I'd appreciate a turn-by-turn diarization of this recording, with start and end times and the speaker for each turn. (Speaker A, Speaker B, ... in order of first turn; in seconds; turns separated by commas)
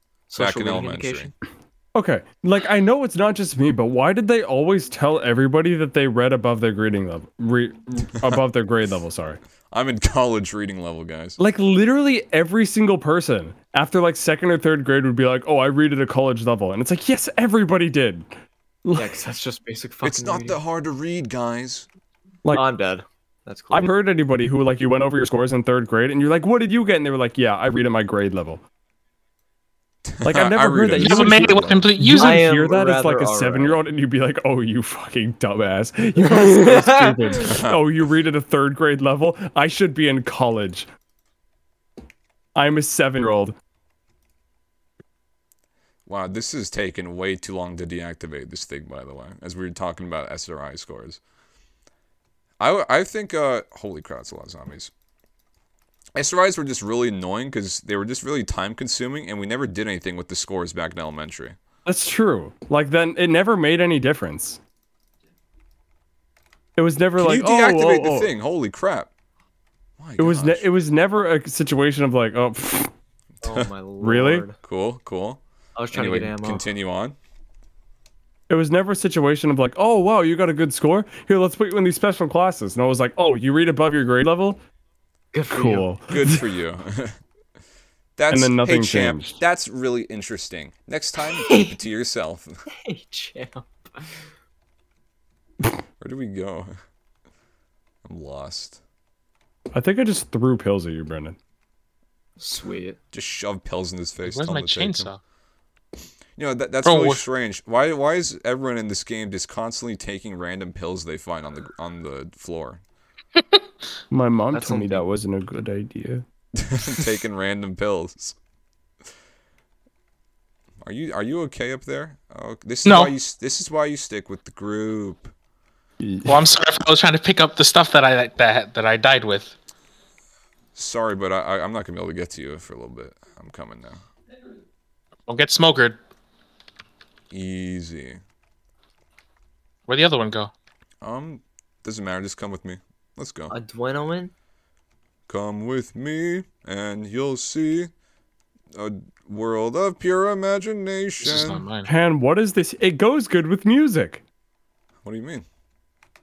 Speaker A: 0.3-1.3, Speaker B: 0.4-1.3, Speaker C: 1.9-9.4, Speaker B: 9.7-11.4, Speaker C: 11.4-18.3, Speaker C: 18.8-19.1, Speaker A: 18.9-20.6, Speaker B: 20.0-21.9, Speaker A: 22.5-23.9, Speaker C: 23.7-28.6, Speaker B: 30.0-31.9, Speaker C: 30.2-40.9, Speaker D: 31.0-32.4, Speaker A: 32.1-33.8, Speaker A: 36.2-37.5, Speaker B: 37.4-37.8, Speaker C: 42.5-43.5, Speaker B: 46.0-51.2, Speaker B: 52.6-54.9, Speaker B: 56.1-61.5, Speaker C: 61.9-64.6, Speaker C: 66.8-68.3, Speaker B: 67.2-69.1, Speaker B: 70.0-70.7, Speaker C: 70.2-72.9, Speaker A: 73.4-74.6, Speaker B: 73.4-73.7, Speaker C: 74.0-74.4, Speaker B: 74.6-75.4, Speaker A: 75.8-76.6, Speaker B: 75.9-77.2, Speaker C: 78.5-84.6, Speaker A: 85.3-85.9, Speaker C: 85.5-86.4, Speaker B: 86.1-87.2, Speaker B: 88.2-92.5, Speaker C: 88.3-89.4, Speaker A: 91.3-91.7, Speaker A: 92.8-94.2, Speaker B: 96.0-96.7, Speaker B: 98.0-98.8, Speaker C: 99.7-101.4, Speaker A: 102.4-103.0, Speaker B: 103.1-105.1, Speaker D: 104.2-105.2, Speaker B: 106.3-112.8, Speaker D: 106.8-107.2, Speaker C: 114.1-116.2, Speaker A: 114.5-115.0, Speaker B: 116.5-118.3, Speaker B: 120.8-125.3, Speaker D: 122.8-123.1, Speaker C: 126.0-126.3, Speaker D: 126.2-129.5, Speaker B: 130.7-134.0, Speaker D: 135.3-136.0, Speaker B: 137.3-138.2, Speaker D: 139.9-140.5, Speaker B: 141.0-143.5, Speaker A: 143.5-144.3, Speaker B: 145.3-147.9, Speaker B: 148.7-151.6, Speaker D: 151.2-151.9, Speaker C: 151.8-154.2, Speaker B: 155.0-155.4